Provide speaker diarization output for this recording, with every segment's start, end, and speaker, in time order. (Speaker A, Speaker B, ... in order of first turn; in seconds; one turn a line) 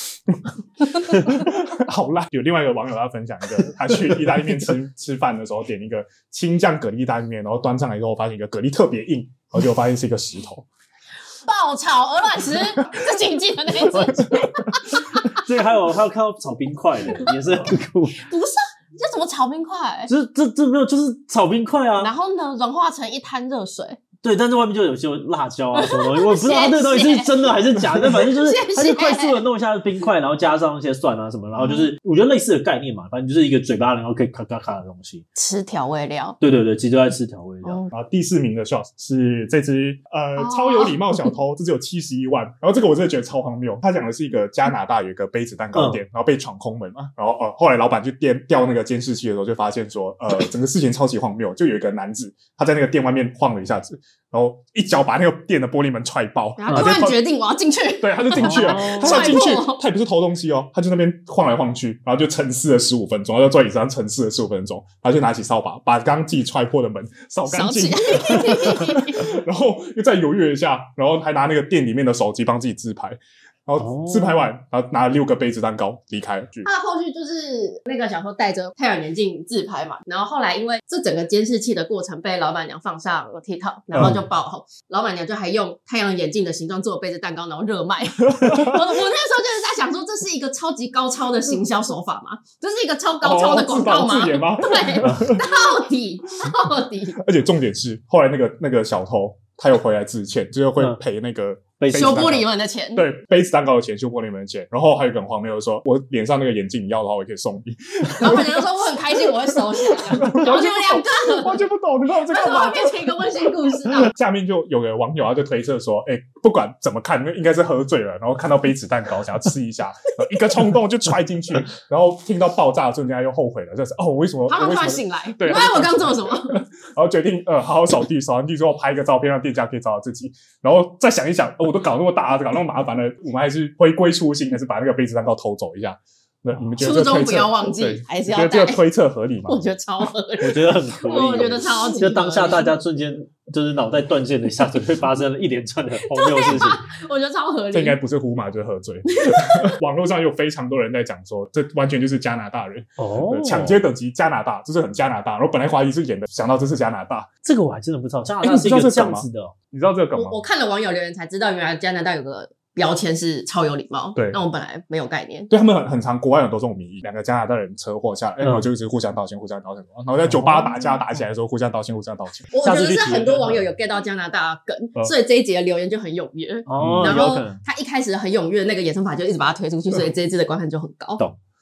Speaker A: 0.3-10.7
Speaker B: 11.4-15.4
Speaker C: 13.9-14.3
Speaker C: 15.4-18.2
Speaker B: 18.2-20.1
Speaker C: 20.1-22.1
Speaker B: 22.0-24.0
Speaker C: 24.2-35.3
Speaker B: 25.7-29.4
Speaker B: 31.6-31.9
Speaker B: 35.4-36.4
Speaker C: 36.4-37.8
Speaker B: 37.6-37.9
Speaker A: 37.9-57.2
Speaker B: 40.4-41.0
Speaker C: 45.7-46.0
Speaker B: 56.6-59.8
Speaker A: 58.0-76.7
Speaker C: 58.4-59.4
Speaker B: 67.5-69.3
Speaker C: 73.8-74.5
Speaker B: 76.6-97.2
Speaker A: 83.9-84.2
Speaker A: 88.4-88.8
Speaker A: 93.2-95.7
Speaker A: 97.2-109.0
Speaker C: 101.8-102.2
Speaker B: 101.9-103.1
Speaker B: 108.2-111.6
Speaker A: 109.5-139.6
Speaker B: 112.2-114.1
Speaker B: 124.5-126.6
Speaker B: 136.8-138.9
Speaker B: 139.5-142.7
Speaker C: 140.4-146.8
Speaker B: 146.0-148.0
Speaker A: 147.7-157.3
Speaker B: 149.1-149.7
Speaker C: 153.0-153.8
Speaker C: 157.4-159.6
Speaker A: 158.4-160.4
Speaker B: 160.2-165.5
Speaker A: 165.5-172.5
Speaker C: 168.4-168.7
Speaker C: 170.2-170.7
Speaker B: 172.5-181.2
Speaker C: 172.6-173.7
Speaker C: 176.7-177.6
Speaker A: 176.8-177.2